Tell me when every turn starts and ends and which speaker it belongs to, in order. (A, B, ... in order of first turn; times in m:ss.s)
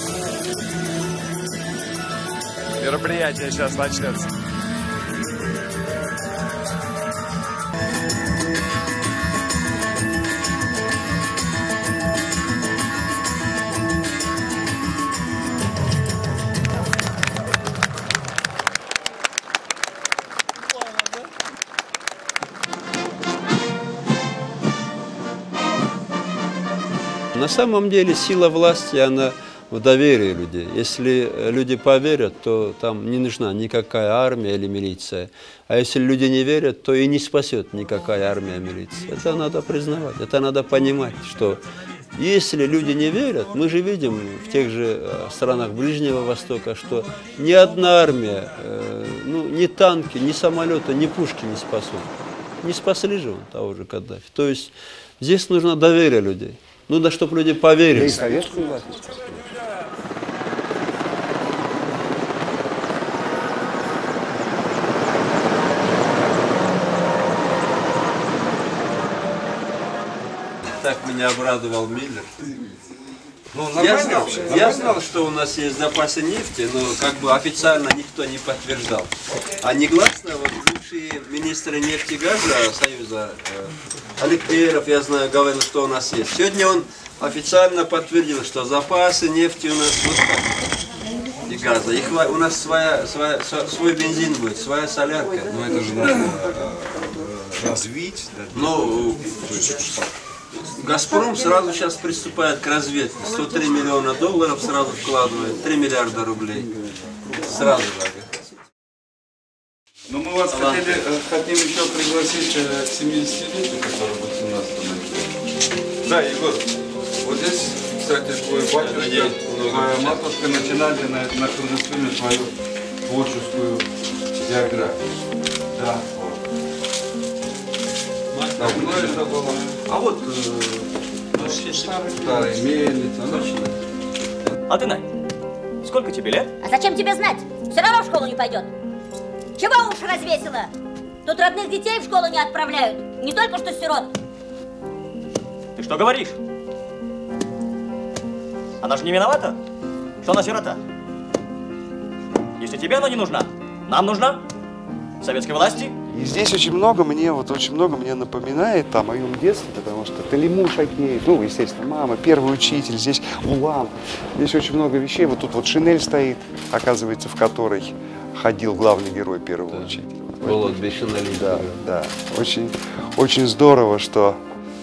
0:02.8-0:04.3 A
0:27.3-0:41.6 B
0:42.1-0:52.1 B
0:52.6-0:58.2 B
0:57.9-0:59.5 A
1:10.7-1:12.3 B
1:13.5-1:14.9 A
1:13.7-1:30.5 B
1:31.5-1:35.5 B
1:35.5-1:38.3 C
1:38.5-1:39.8 B
1:40.5-1:46.7 B
1:47.3-1:48.3 B
1:50.1-1:55.3 C
1:50.5-1:50.8 B
1:56.0-1:56.7 C
1:57.2-2:02.5 C
1:58.7-2:00.2 B
2:03.0-2:03.9 C
2:04.4-2:05.0 C
2:05.7-2:06.4 C
2:08.3-2:09.2 B
2:08.6-2:13.7 C
2:14.7-2:15.1 D
2:15.8-2:16.5 D
2:16.6-2:18.7 E
2:19.6-2:20.7 E
2:21.2-2:24.1 E
2:25.8-2:26.4 D
2:28.8-2:29.6 D
2:30.2-2:30.8 D
2:32.6-2:34.4 D
2:35.2-2:35.9 D
2:36.1-2:54.4 A
2:50.4-2:51.8 B